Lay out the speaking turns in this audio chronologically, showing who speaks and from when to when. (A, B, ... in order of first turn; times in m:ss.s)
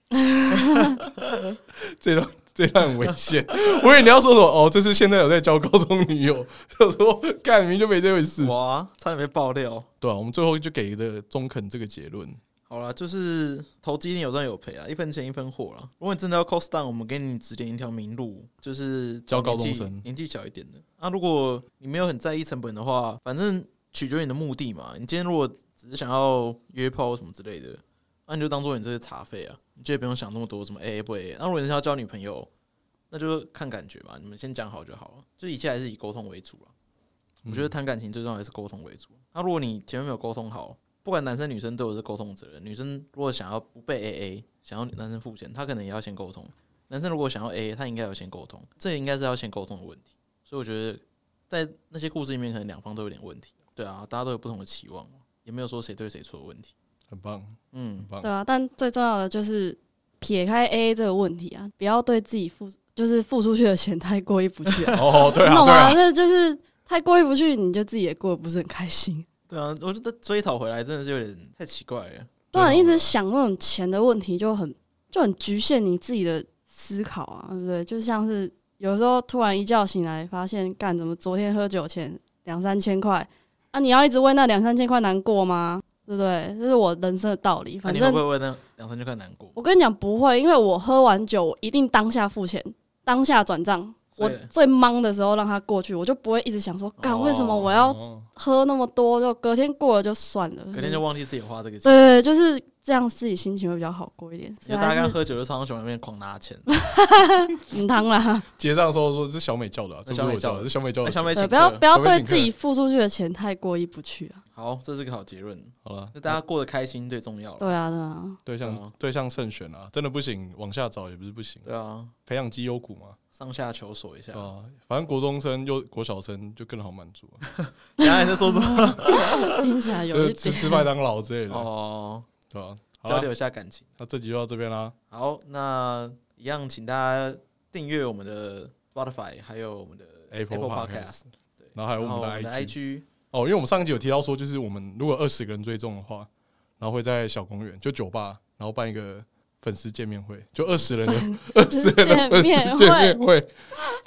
0:00.2-0:00.9 A
0:00.5-0:01.6 B
0:01.8-0:08.5 C
0:08.4-0:09.9 B
0:10.0-0:12.4 C
0:12.7-0:32.5 B
0:19.3-0:20.0 C
0:33.1-0:36.7 B
0:37.4-0:37.7 C
0:37.5-0:56.7 B
0:57.1-0:58.3 C
0:57.7-0:58.1 B
0:58.2-1:09.3 A
1:04.9-1:06.0 C
1:09.5-1:12.5 B
1:12.5-1:28.2 A
1:12.5-1:13.1 C
1:27.8-1:29.6 B
1:29.6-1:41.0 A
1:34.2-1:34.5 B
1:37.0-1:37.7 B
1:37.7-1:38.3 C
1:40.7-1:42.2 B
1:41.8-1:45.2 A
1:44.6-1:46.7 B
1:46.8-1:48.4 A
1:48.6-1:52.5 C
1:50.1-1:51.8 B
1:51.3-1:54.4 A
1:54.5-1:57.7 B
1:55.8-1:56.4 C
1:57.6-1:58.4 A
1:58.5-2:01.7 C
1:58.6-1:58.9 B
2:01.6-2:02.1 B
2:02.3-2:03.2 C
2:03.3-2:04.5 B
2:04.3-2:07.5 C
2:07.6-2:09.6 B
2:08.0-2:10.9 A
2:10.1-2:11.7 C
2:11.5-2:12.3 B
2:12.5-2:13.3 C
2:13.0-2:13.9 B
2:14.0-2:15.0 C
2:15.1-2:23.1 B
2:20.3-2:21.2 C
2:21.8-2:22.7 C
2:23.3-2:26.3 C
2:26.8-2:33.7 C
2:31.0-2:33.2 A